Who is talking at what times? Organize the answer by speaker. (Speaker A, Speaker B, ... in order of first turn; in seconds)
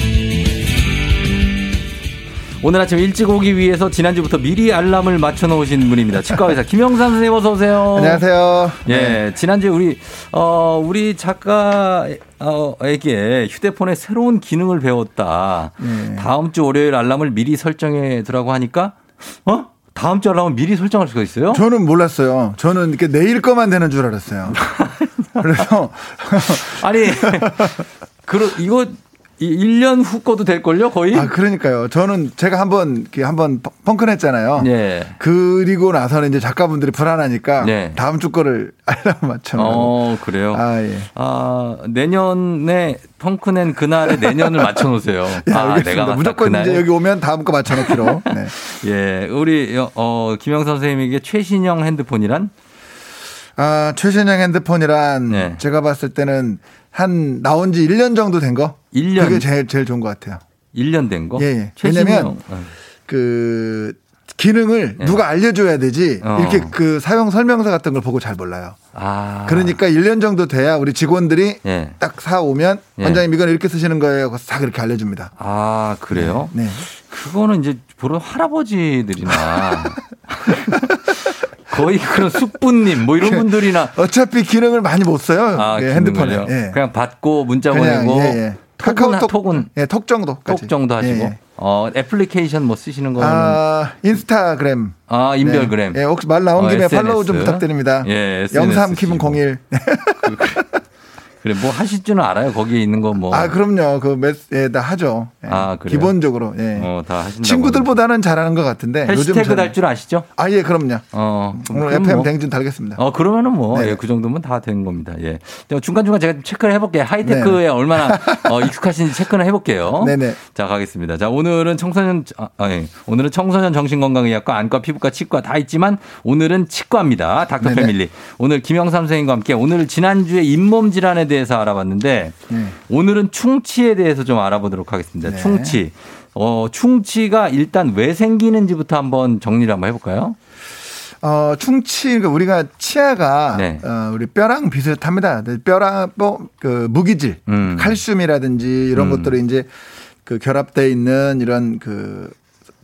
Speaker A: 2.6-8.2, 8.8-21.6, 24.5-25.5, 26.4-31.3, 34.6-35.2, 37.6-38.0, 39.5-46.9, 47.7-52.5, 55.3-55.6, 58.9-59.5, 60.7-62.7, 66.2-66.7, 68.9-69.8, 71.6-72.0, 73.0-73.2, 75.4-84.0, 85.5-89.7, 90.5-93.6, 95.1-96.0, 96.5-99.4, 100.2-100.6, 101.4-103.5, 105.5-106.1, 106.7-108.0, 109.0-110.2, 111.1-112.3, 113.0-140.3, 143.5-143.8, 147.5-148.0, 148.9-149.4
Speaker B: 7.9-9.2, 15.8-16.3, 21.5-24.6, 25.4-27.8, 31.1-41.1, 44.0-48.5, 53.6-60.4, 61.4-62.4, 63.1-68.8, 69.5-75.3, 76.1-76.8, 79.2-81.1, 82.1-86.8, 87.7-91.4, 93.2-100.8, 103.3-109.7, 110.4-113.0, 113.7-114.0, 117.2-118.7, 120.0-120.4, 127.6-127.9, 132.5-132.7, 135.2-135.8, 141.2-149.7, 150.2-152.3